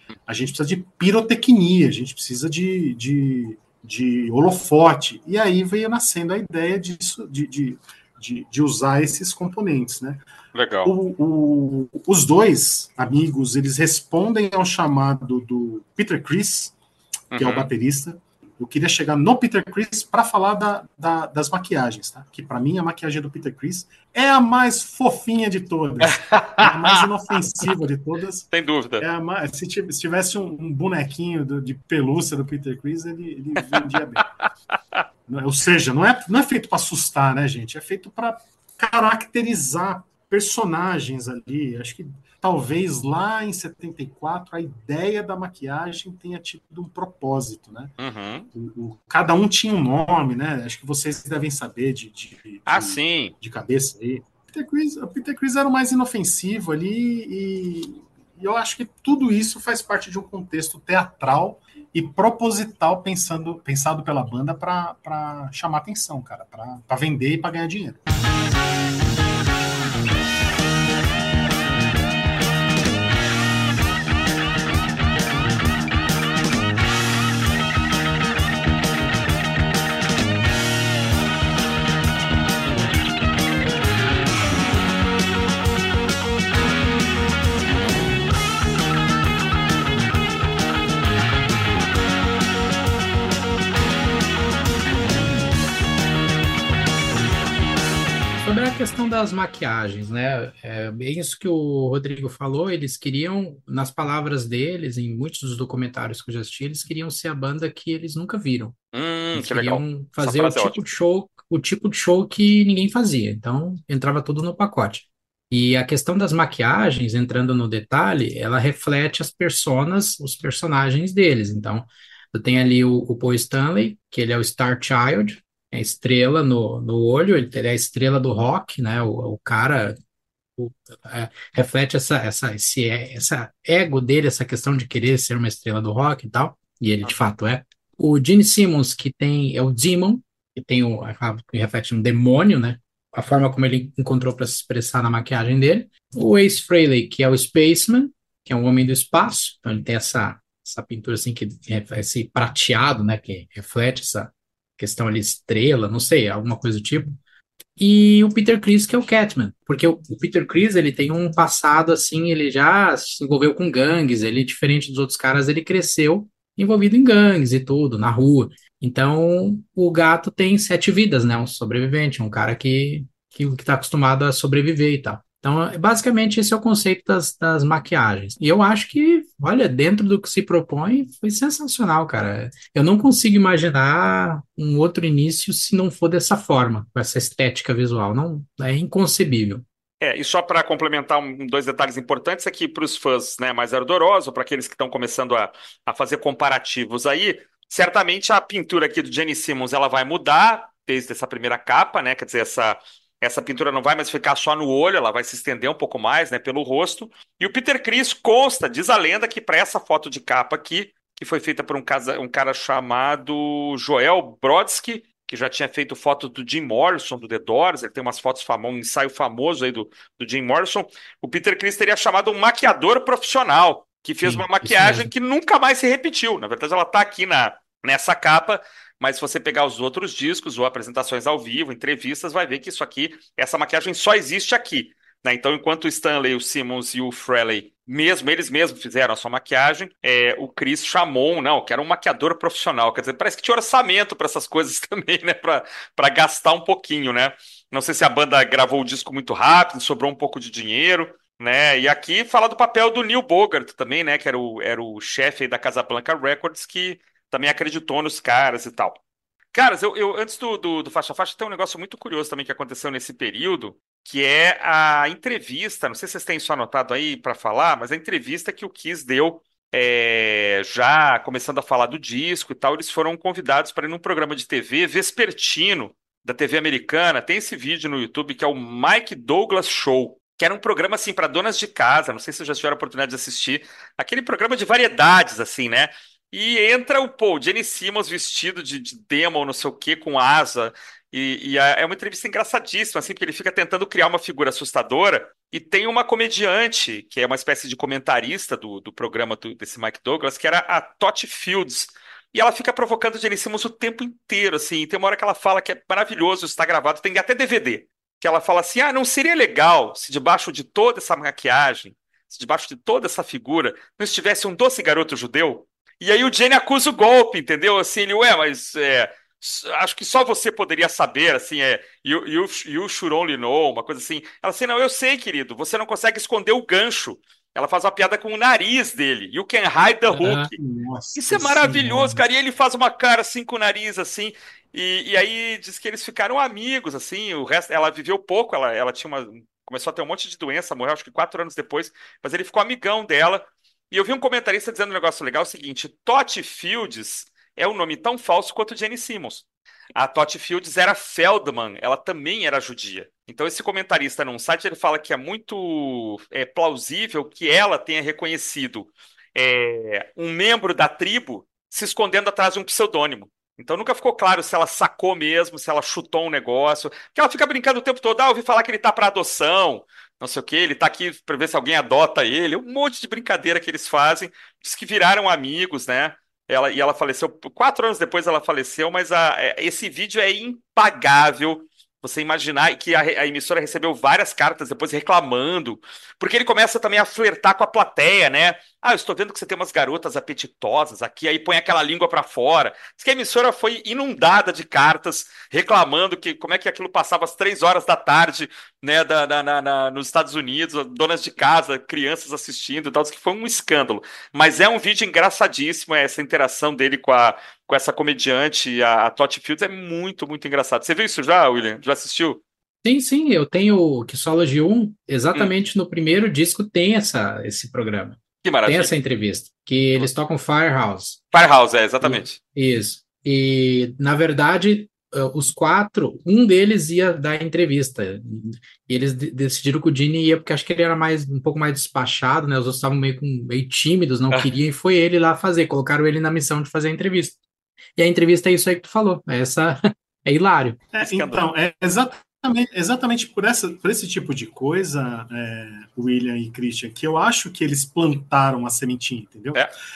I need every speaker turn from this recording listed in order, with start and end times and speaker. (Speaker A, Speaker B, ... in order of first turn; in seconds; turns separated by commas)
Speaker A: 0.3-10.2, Speaker B: 10.5-10.9, Speaker A: 10.8-16.7, Speaker B: 17.3-17.7, Speaker A: 17.3-34.2, Speaker B: 26.0-27.1, Speaker B: 28.5-29.1, Speaker B: 33.6-33.9, Speaker A: 35.3-47.9, Speaker B: 48.0-48.5, Speaker A: 48.5-68.0, Speaker B: 52.7-53.3, Speaker C: 98.4-108.8, Speaker B: 108.9-110.8, Speaker C: 109.3-129.9, Speaker C: 130.6-157.2, Speaker C: 157.8-189.6, Speaker B: 190.0-259.0, Speaker C: 224.2-225.1, Speaker B: 259.5-330.5, Speaker C: 330.1-330.5, Speaker A: 330.5-332.2, Speaker B: 331.1-349.4, Speaker B: 349.9-412.4, Speaker C: 412.8-421.2, Speaker B: 418.4-418.9, Speaker B: 421.3-422.4, Speaker C: 422.0-437.4, Speaker C: 438.0-440.8, Speaker A: 440.9-449.6, Speaker B: 441.0-441.4